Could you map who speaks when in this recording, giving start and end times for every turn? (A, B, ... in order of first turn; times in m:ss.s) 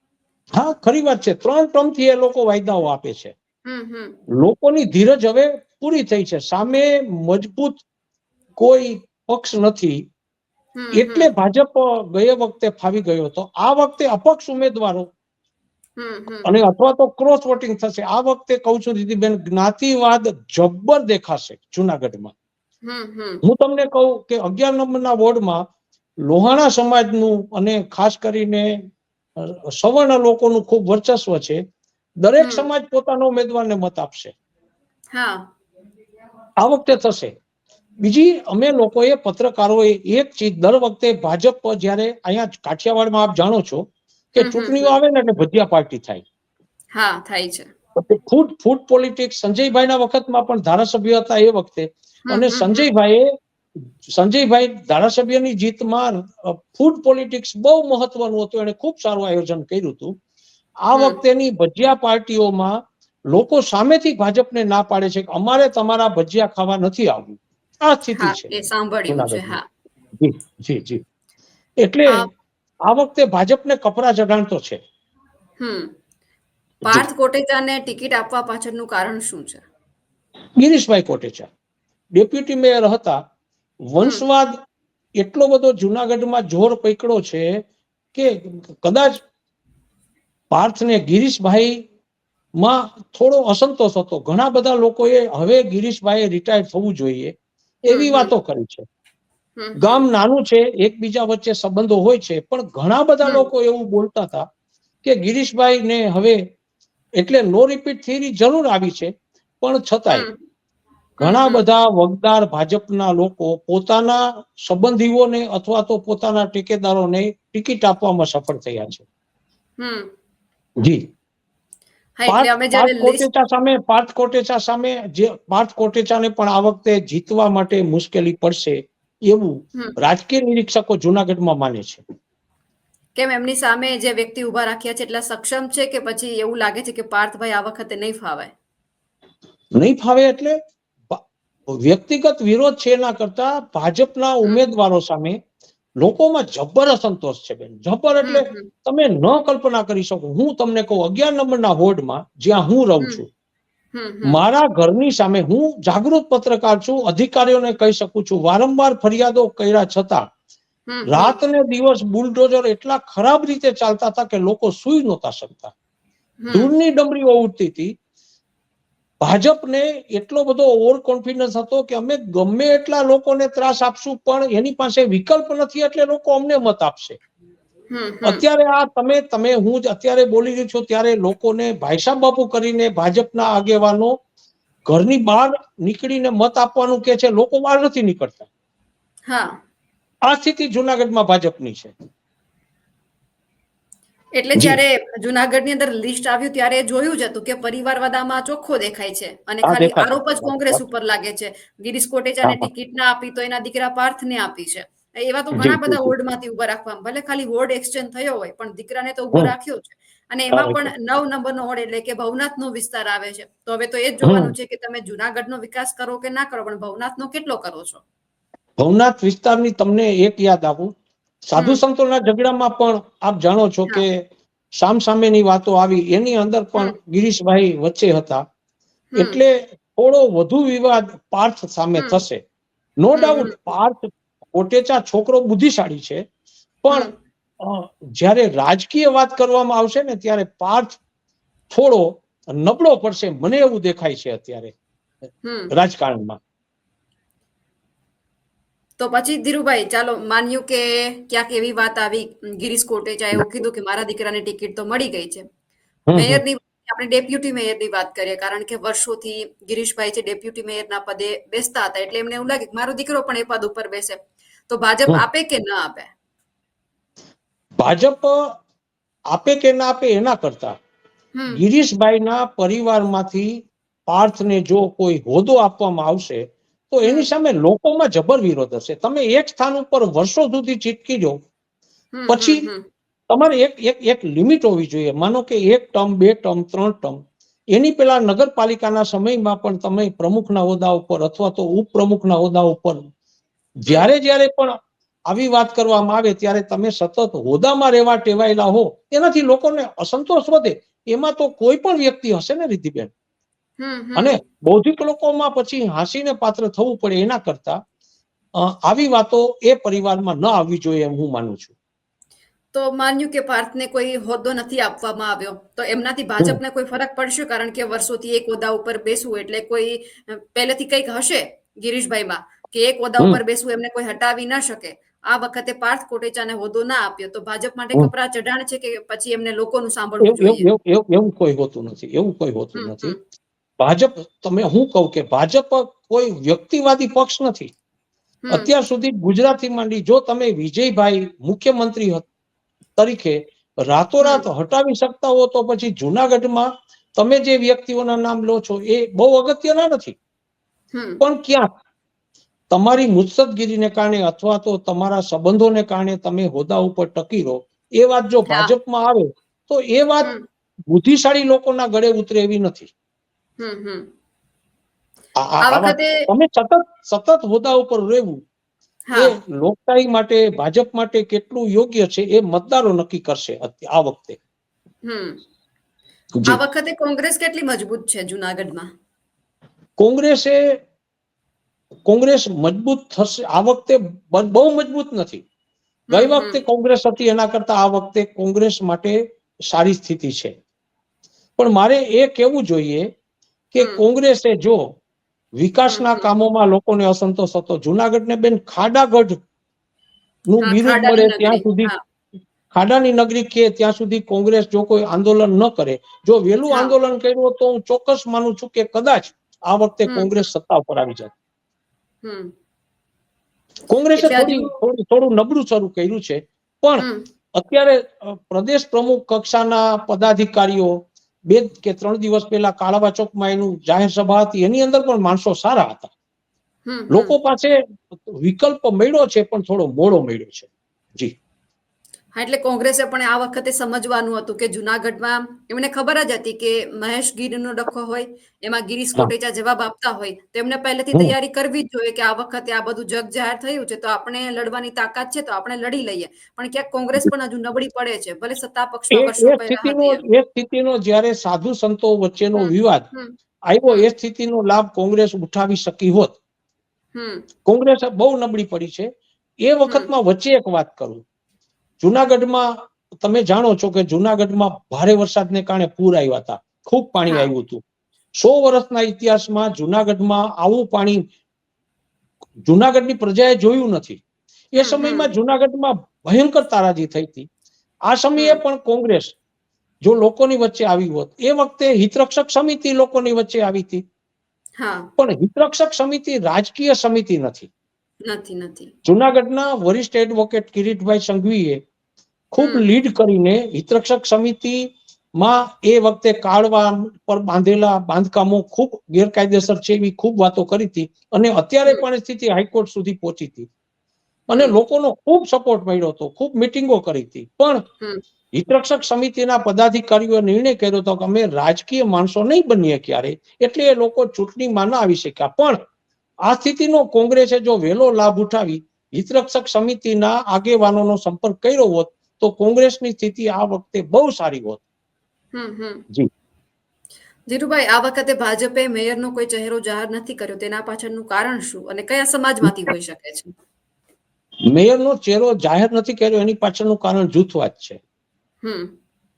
0:00.6-0:03.3 A
0:03.6-0:04.2 B
0:04.4-0:07.8 A
0:08.6-0:10.0 A
0:10.8-0:11.3 B
0:10.9-0:15.1 A
0:16.0-0:16.5 B
0:16.4-0:22.3 A
0:22.8-0:23.4 B
0:23.4-0:25.6 A
0:26.2-0:28.8 A
0:29.4-0:31.6 A
0:32.2-0:34.3 A
0:32.4-0:32.7 B
0:35.1-0:35.5 B
0:36.6-0:37.3 A
0:38.0-0:46.2 A
0:44.4-0:45.0 B
0:46.9-0:47.7 B
0:48.0-0:53.3 A
0:52.3-0:52.9 B
0:54.1-1:00.2 A
1:00.8-1:02.8 A
1:03.3-1:08.5 A
1:08.2-1:09.6 B
1:09.1-1:09.6 A
1:10.2-1:11.0 A
1:11.8-1:12.3 A
1:12.9-1:14.8 A
1:15.6-1:15.9 B
1:16.8-1:19.6 B
1:20.6-1:21.5 A
1:22.2-1:23.2 A
1:23.9-1:24.5 A
1:25.2-1:27.6 A
1:28.1-1:29.2 A
1:30.5-1:31.8 A
1:32.6-1:37.3 A
1:37.9-1:38.8 A
1:37.9-1:38.3 B
1:39.6-1:40.1 B
1:39.8-1:44.5 A
1:45.0-1:46.4 A
1:47.2-1:50.3 A
1:50.1-1:50.4 B
1:51.2-1:59.0 A
1:51.2-1:51.6 B
1:59.8-2:00.1 B
2:02.2-2:03.3 B
2:02.3-2:12.0 A
2:13.2-2:18.5 B
2:19.8-2:20.6 A
2:21.1-2:25.4 A
2:26.0-2:33.3 A
2:28.2-2:28.7 B
2:34.0-2:34.4 B
2:34.2-2:40.2 A
2:40.9-2:41.4 B
2:41.1-2:45.7 A
2:46.4-2:46.7 B
2:46.5-2:47.9 A
2:49.2-2:57.2 A
2:57.9-2:58.4 B
2:58.2-3:04.2 A
3:04.9-3:08.5 A
3:09.3-3:09.6 B
3:10.3-3:11.9 A
3:14.4-3:38.0 B
3:19.6-3:20.8 A
3:22.4-3:22.7 A
3:25.6-3:26.1 A
3:30.5-3:30.9 A
3:34.2-3:34.5 A
3:38.8-3:40.9 A
3:41.5-3:44.2 A
3:41.6-3:41.8 B
3:44.8-3:48.4 A
3:49.1-3:49.4 B
3:49.2-3:52.4 A
3:53.0-3:56.2 A
3:53.2-3:53.6 B
3:56.8-4:01.0 A
4:01.7-4:04.7 A
4:05.4-4:05.7 B
4:05.7-4:06.4 A
4:09.0-4:15.4 B
4:16.1-4:16.4 A
4:16.2-4:26.1 B
4:27.8-4:28.4 A
4:29.3-4:30.8 A
4:31.4-4:31.6 B
4:31.5-4:41.4 A
4:37.0-4:37.3 B
4:42.1-4:42.9 B
4:42.3-4:42.6 A
4:43.3-4:47.2 A
4:47.7-4:53.0 A
4:53.8-4:54.8 A
4:55.3-5:03.1 A
5:03.8-5:04.4 B
5:04.2-5:07.8 A
5:08.6-5:11.7 A
5:12.7-5:30.7 B
5:30.2-5:33.2 A
5:32.8-5:33.2 B
5:33.8-5:37.7 A
5:38.4-5:38.7 B
5:38.5-5:42.2 A
5:43.0-5:50.2 A
5:50.9-5:51.2 B
5:51.2-5:51.7 A
5:52.7-6:00.3 A
6:00.9-6:02.9 A
6:03.6-6:04.1 B
6:05.4-6:08.4 A
6:05.6-6:06.3 B
6:09.1-6:09.4 B
6:09.2-6:14.4 A
6:15.0-6:15.4 B
6:16.5-6:18.9 B
6:20.0-6:20.6 A
6:22.1-6:25.4 A
6:26.1-6:26.6 B
6:26.1-6:30.6 A
6:31.6-6:33.1 A
6:33.7-6:34.8 A
6:35.6-6:39.4 A
6:35.9-6:36.3 B
6:40.5-6:41.9 A
6:40.6-6:42.0 B
6:42.7-6:51.3 A
6:52.2-6:52.5 B
6:53.9-7:01.0 A
6:54.2-6:54.7 B
6:57.0-6:57.3 B
7:01.5-7:06.1 A
7:06.9-7:07.4 B
7:07.1-7:11.3 A
7:12.4-7:30.2 B
7:29.1-7:33.0 A
7:32.6-7:33.4 B
7:33.7-7:36.4 A
7:37.2-7:37.5 B
7:37.6-7:39.1 A
7:39.6-7:41.2 A
7:42.0-7:47.8 A
7:48.4-7:51.2 A
7:52.6-7:54.2 A
7:54.7-7:57.5 A
7:54.8-7:55.3 B
7:58.1-7:59.4 A
8:00.0-8:04.0 A
8:04.8-8:05.1 B
8:05.2-8:07.7 A
8:08.3-8:08.9 B
8:09.0-8:11.8 A
8:12.5-8:23.7 A
8:12.6-8:12.9 B
8:24.5-8:27.8 A
8:28.5-8:35.8 A
8:36.4-8:44.8 A
8:45.5-8:46.0 B
8:47.5-8:53.5 B
8:54.7-8:58.0 A
8:58.6-8:58.9 B